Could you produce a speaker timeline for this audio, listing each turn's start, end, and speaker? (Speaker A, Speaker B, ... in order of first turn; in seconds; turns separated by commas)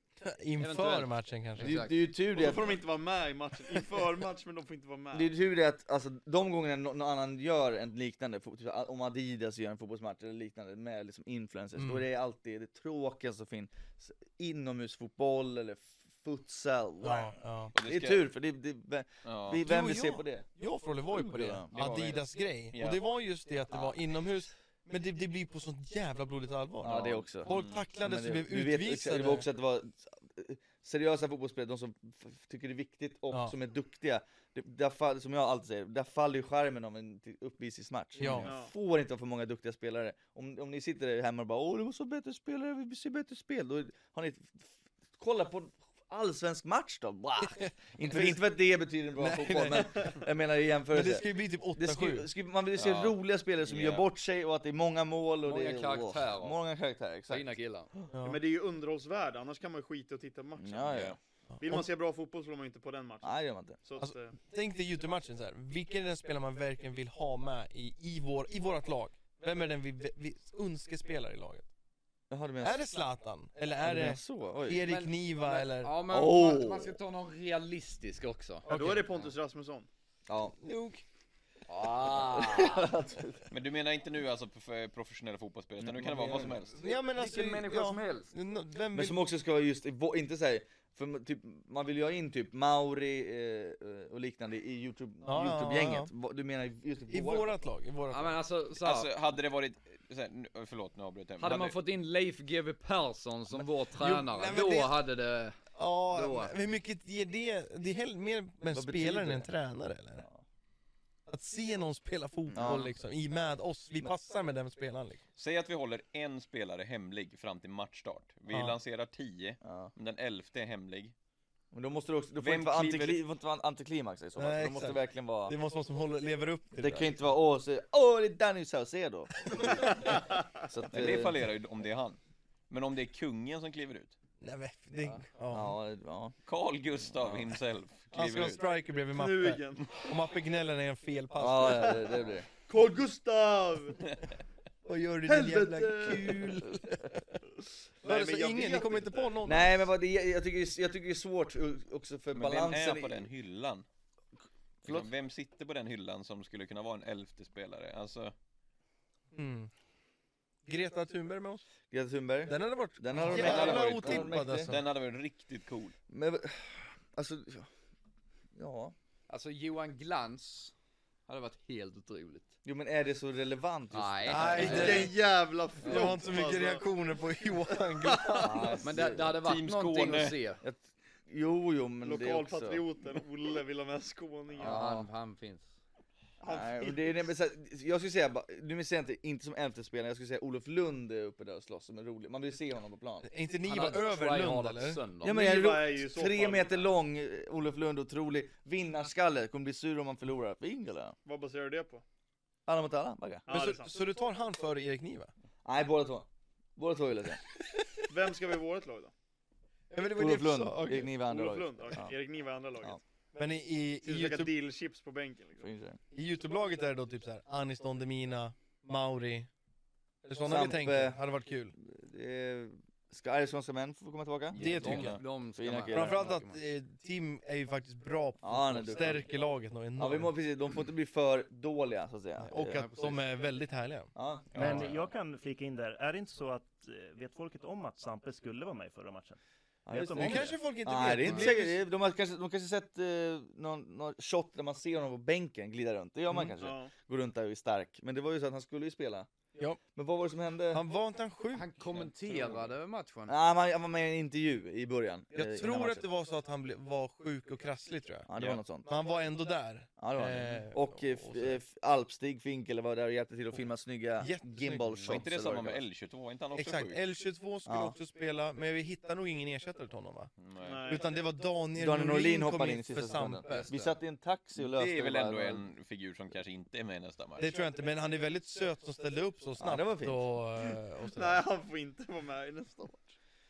Speaker A: 0.2-1.8, Speaker B: 0.6-1.9, Speaker C: 1.6-2.8, Speaker D: 2.3-5.3, Speaker C: 5.1-20.4, Speaker A: 11.8-12.0, Speaker A: 17.0-17.7, Speaker E: 17.7-18.3, Speaker E: 19.2-19.6, Speaker A: 19.6-29.4, Speaker C: 21.1-21.7, Speaker E: 21.7-23.0, Speaker C: 26.8-57.5, Speaker E: 26.9-27.9, Speaker A: 38.2-38.5, Speaker D: 38.4-38.7, Speaker A: 48.0-48.4, Speaker A: 49.2-50.1, Speaker A: 50.9-52.3, Speaker E: 52.7-54.0, Speaker B: 55.4-56.6, Speaker B: 57.3-57.9, Speaker A: 58.1-58.4, Speaker D: 58.2-61.0, Speaker C: 60.6-61.2, Speaker E: 60.9-61.2, Speaker D: 61.6-63.3, Speaker C: 63.2-63.8, Speaker D: 63.8-64.4, Speaker A: 64.0-71.7, Speaker C: 72.3-72.9, Speaker A: 72.6-75.9, Speaker C: 73.8-74.9, Speaker B: 74.8-79.2, Speaker C: 76.1-77.0, Speaker D: 78.7-79.9, Speaker A: 78.7-79.0, Speaker C: 80.3-80.5, Speaker A: 80.5-81.0, Speaker B: 81.7-82.9, Speaker C: 82.0-83.5, Speaker E: 83.5-86.9, Speaker C: 85.8-86.6, Speaker B: 86.7-88.3, Speaker A: 86.8-89.2, Speaker C: 88.9-97.5, Speaker A: 95.2-96.1, Speaker A: 97.1-98.4, Speaker B: 98.1-99.1, Speaker E: 98.8-101.8, Speaker B: 101.4-105.6, Speaker A: 104.0-105.0, Speaker A: 105.7-110.2, Speaker B: 106.1-106.5, Speaker C: 108.7-109.5, Speaker C: 110.2-110.4, Speaker A: 111.3-115.2, Speaker C: 112.5-112.9, Speaker E: 115.3-121.1, Speaker C: 119.6-119.9, Speaker C: 121.7-125.5, Speaker E: 122.4-123.2, Speaker A: 124.4-127.1, Speaker C: 126.8-131.4, Speaker A: 129.4-129.8, Speaker E: 130.9-132.2, Speaker E: 132.7-134.1, Speaker A: 134.4-135.7, Speaker C: 135.5-136.3, Speaker E: 136.4-138.6, Speaker C: 137.2-137.5, Speaker A: 138.1-142.1, Speaker D: 139.1-140.1, Speaker C: 141.4-142.5, Speaker D: 142.7-144.0, Speaker A: 144.8-147.4, Speaker D: 145.2-146.6, Speaker D: 148.0-149.4, Speaker A: 148.0-149.9, Speaker C: 149.4-153.3, Speaker E: 152.3-153.8, Speaker C: 154.8-155.1, Speaker E: 154.8-158.3, Speaker A: 159.3-159.7, Speaker A: 160.6-161.6, Speaker C: 161.9-164.8, Speaker A: 162.5-164.8, Speaker E: 163.2-165.9, Speaker C: 166.1-167.7, Speaker C: 168.5-168.9, Speaker B: 169.3-170.7, Speaker B: 171.3-172.5, Speaker C: 172.6-175.1, Speaker B: 173.9-175.1, Speaker A: 174.3-175.1, Speaker D: 174.6-176.9, Speaker A: 175.8-178.7, Speaker D: 177.4-178.8, Speaker C: 178.4-179.4, Speaker B: 178.8-180.6, Speaker E: 179.4-180.4, Speaker C: 180.6-182.8, Speaker D: 182.0-184.8, Speaker B: 184.6-185.7, Speaker C: 184.6-185.1, Speaker D: 186.4-187.2, Speaker C: 186.4-193.3, Speaker A: 193.2-195.0, Speaker B: 193.6-195.4, Speaker C: 195.2-201.2, Speaker D: 195.2-196.8, Speaker D: 201.2-202.0, Speaker C: 202.7-203.5, Speaker D: 203.5-204.0, Speaker A: 203.5-205.3, Speaker C: 205.6-207.4, Speaker A: 207.7-208.0, Speaker D: 208.1-209.1, Speaker A: 209.9-211.1, Speaker C: 210.1-212.2, Speaker D: 211.1-213.0, Speaker A: 213.3-214.5, Speaker D: 214.0-215.7, Speaker C: 215.6-216.0, Speaker A: 216.1-219.5, Speaker A: 220.2-221.7, Speaker C: 220.4-221.2, Speaker C: 221.8-226.3, Speaker E: 224.5-225.2, Speaker A: 224.6-225.2, Speaker B: 224.6-226.6, Speaker A: 225.9-230.3, Speaker C: 228.4-229.2, Speaker C: 230.0-232.8, Speaker A: 232.4-234.8, Speaker B: 232.6-233.2, Speaker C: 234.1-234.9, Speaker E: 234.5-235.0, Speaker F: 234.6-239.4, Speaker C: 239.8-249.3, Speaker F: 239.9-240.6, Speaker A: 240.2-241.8, Speaker D: 246.6-246.9, Speaker C: 249.9-250.8, Speaker A: 250.7-251.7, Speaker B: 251.5-253.3, Speaker C: 253.3-256.1, Speaker A: 255.3-258.3, Speaker C: 258.3-258.9, Speaker E: 258.4-258.6, Speaker A: 258.8-261.6, Speaker C: 260.0-265.8, Speaker A: 264.2-265.1, Speaker E: 265.0-267.0, Speaker A: 266.5-270.3, Speaker C: 267.6-267.9, Speaker E: 270.4-270.9, Speaker D: 270.6-271.1, Speaker A: 270.9-273.7, Speaker C: 271.7-275.6, Speaker B: 273.5-273.9, Speaker E: 274.6-277.5, Speaker A: 277.4-281.4, Speaker C: 279.6-280.2, Speaker D: 281.0-283.1